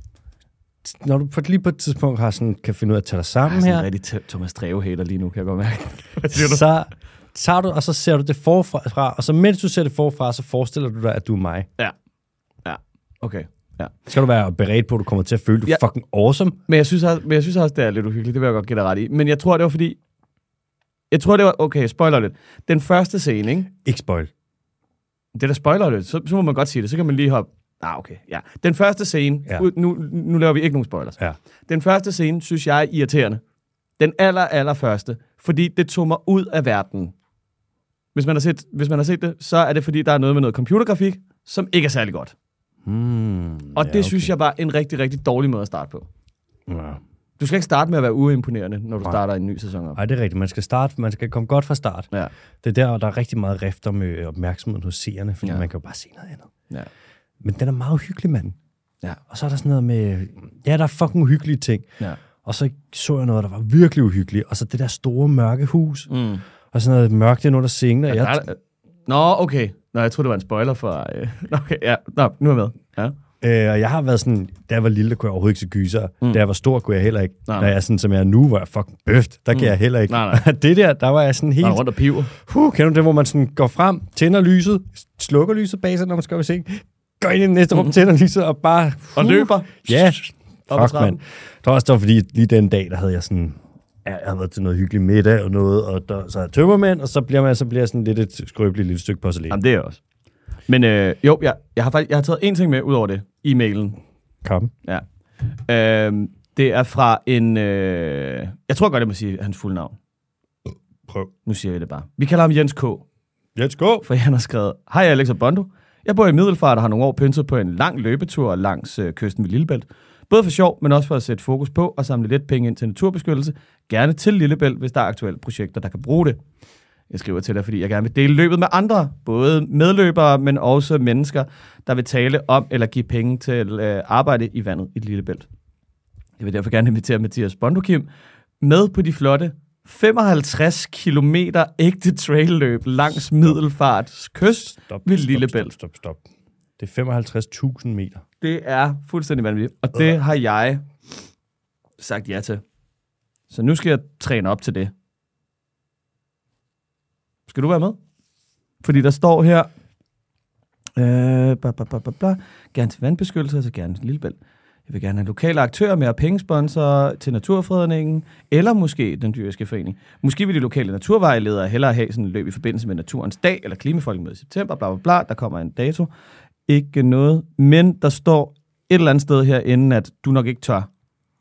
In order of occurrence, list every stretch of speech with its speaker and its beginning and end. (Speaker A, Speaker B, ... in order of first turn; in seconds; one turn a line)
Speaker A: 0.8-3.9
Speaker B: 3.4-6.7
Speaker A: 6.3-11.7
Speaker B: 12.6-14.1
Speaker A: 14.1-16.6
Speaker B: 16.7-20.0
Speaker B: 21.1-23.7
Speaker A: 23.8-24.3
Speaker B: 25.3-33.4
Speaker B: 34.0-37.1
Speaker B: 38.1-42.3
Speaker A: 42.8-44.3
Speaker B: 43.7-46.1
Speaker A: 46.7-47.0
Speaker B: 47.4-50.0
Speaker A: 49.9-52.1
Speaker A: 52.6-56.5
Speaker A: 57.4-58.5
Speaker A: 59.3-61.9
Speaker A: 62.4-66.1
Speaker B: 66.1-66.4
Speaker A: 66.7-68.4
Speaker B: 68.1-68.6
Speaker B: 69.1-73.2
Speaker A: 73.4-99.6
Speaker B: 79.5-80.5
Speaker B: 81.6-82.3
Speaker B: 89.2-90.0
Speaker B: 90.7-91.2
Speaker B: 99.5-100.0
Speaker B: 100.7-104.0
Speaker A: 104.4-104.7
Speaker B: 105.7-109.9
Speaker A: 111.1-111.3
Speaker B: 111.5-113.0
Speaker A: 113.5-114.0
Speaker B: 114.0-126.4
Speaker B: 127.1-135.5
Speaker B: 136.4-138.1
Speaker B: 138.6-145.7
Speaker A: 144.4-146.2
Speaker A: 146.8-148.2
Speaker B: 148.4-150.8
Speaker B: 152.0-152.6
Speaker B: 153.5-154.9
Speaker B: 157.5-158.0
Speaker B: 158.8-159.7
Speaker B: 161.0-164.4
Speaker B: 164.9-176.1
Speaker B: 176.7-180.9